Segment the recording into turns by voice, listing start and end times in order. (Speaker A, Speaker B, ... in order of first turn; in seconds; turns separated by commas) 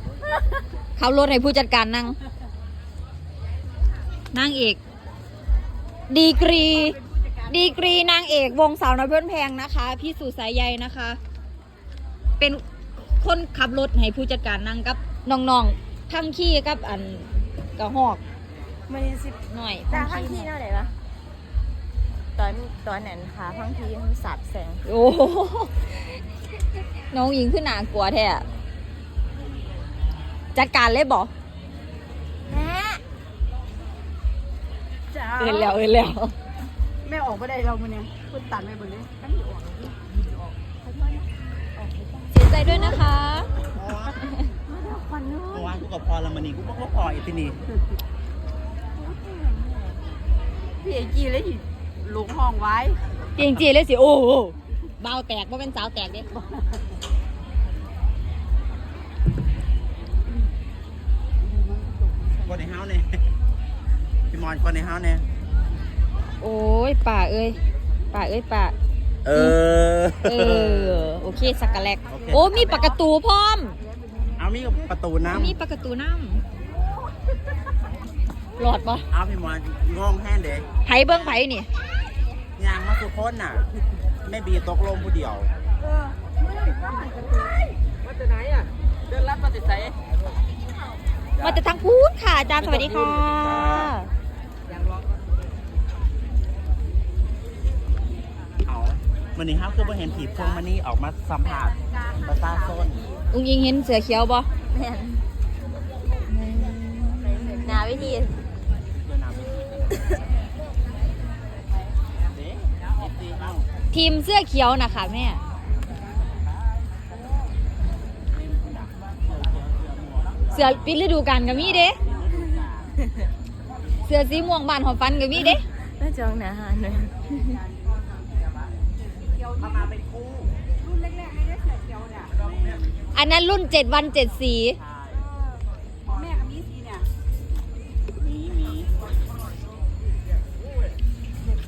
Speaker A: 1.0-2.2, Speaker A: 4.3-4.8, Speaker A: 6.1-7.0, Speaker B: 6.4-7.7, Speaker A: 7.5-11.2, Speaker A: 13.2-18.2, Speaker C: 18.9-19.4, Speaker A: 19.5-20.5, Speaker C: 19.9-20.9, Speaker C: 22.4-24.8, Speaker A: 24.9-26.1, Speaker A: 27.1-28.4, Speaker A: 30.5-31.3, Speaker C: 32.5-33.0, Speaker B: 35.1-35.7, Speaker A: 35.3-36.3, Speaker B: 37.0-40.0, Speaker B: 40.8-42.8, Speaker A: 42.3-43.5, Speaker D: 43.7-44.2, Speaker B: 44.8-45.5, Speaker C: 45.1-45.6, Speaker D: 45.5-47.6, Speaker B: 49.3-49.9, Speaker B: 50.8-53.0, Speaker A: 53.4-56.3, Speaker B: 61.4-62.6, Speaker D: 62.5-63.2, Speaker D: 64.3-65.2, Speaker A: 66.4-67.6, Speaker A: 68.1-68.8, Speaker D: 69.2-70.9, Speaker A: 69.3-69.6, Speaker A: 70.2-73.8, Speaker D: 72.1-72.9, Speaker D: 74.4-75.6, Speaker A: 75.3-76.4, Speaker A: 78.6-79.0, Speaker D: 79.1-80.7, Speaker A: 80.8-81.7, Speaker D: 82.6-83.7, Speaker D: 84.2-85.5, Speaker B: 85.8-87.5, Speaker A: 91.4-94.1, Speaker D: 98.7-103.0, Speaker B: 101.4-103.2, Speaker A: 103.3-104.5, Speaker C: 104.7-105.2, Speaker A: 106.3-108.0, Speaker C: 107.2-108.3, Speaker D: 108.9-110.2, Speaker D: 112.3-113.7, Speaker A: 113.9-115.4, Speaker D: 118.3-120.6, Speaker A: 120.5-122.0, Speaker D: 121.5-122.9, Speaker A: 124.0-125.6, Speaker C: 125.4-127.6, Speaker B: 129.2-129.8, Speaker D: 129.6-130.5, Speaker B: 130.8-132.3, Speaker A: 133.1-134.8, Speaker D: 134.8-135.2, Speaker B: 136.1-137.1, Speaker D: 138.2-139.1